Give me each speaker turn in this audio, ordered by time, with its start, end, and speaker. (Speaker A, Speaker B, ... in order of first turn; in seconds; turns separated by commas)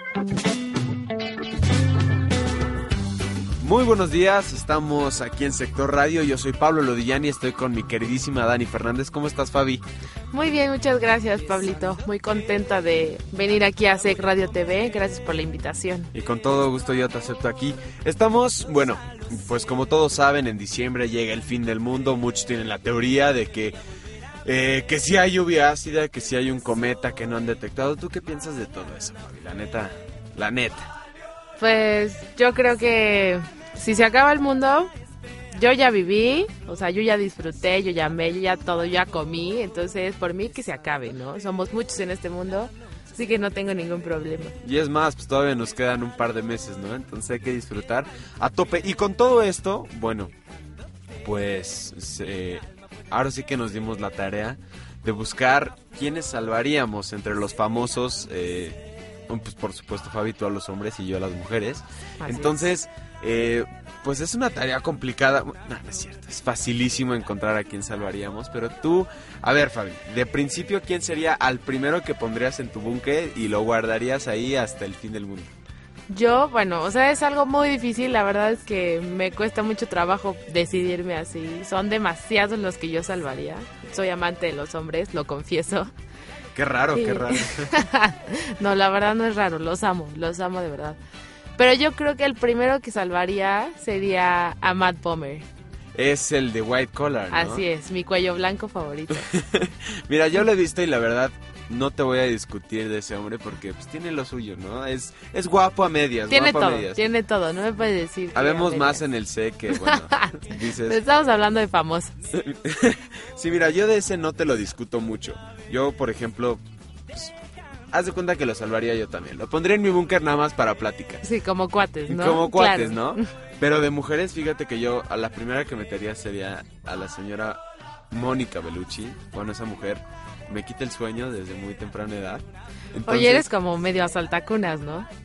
Speaker A: 3.6-9.8, Speaker B: 10.3-16.1, Speaker A: 16.1-23.7, Speaker A: 24.4-30.9, Speaker B: 31.6-34.9, Speaker B: 35.5-44.5, Speaker A: 44.6-50.3, Speaker A: 51.2-75.5, Speaker B: 62.2-62.7, Speaker B: 76.1-85.9, Speaker A: 86.5-87.7, Speaker B: 86.9-91.0, Speaker B: 91.6-95.5, Speaker A: 95.9-97.6, Speaker B: 97.3-99.3, Speaker A: 99.1-107.0, Speaker B: 106.3-109.0, Speaker A: 108.3-111.0, Speaker B: 109.7-112.2, Speaker A: 112.3-116.6, Speaker A: 117.9-121.2, Speaker B: 121.2-123.3, Speaker A: 122.1-127.6, Speaker A: 128.1-133.5, Speaker B: 133.0-135.1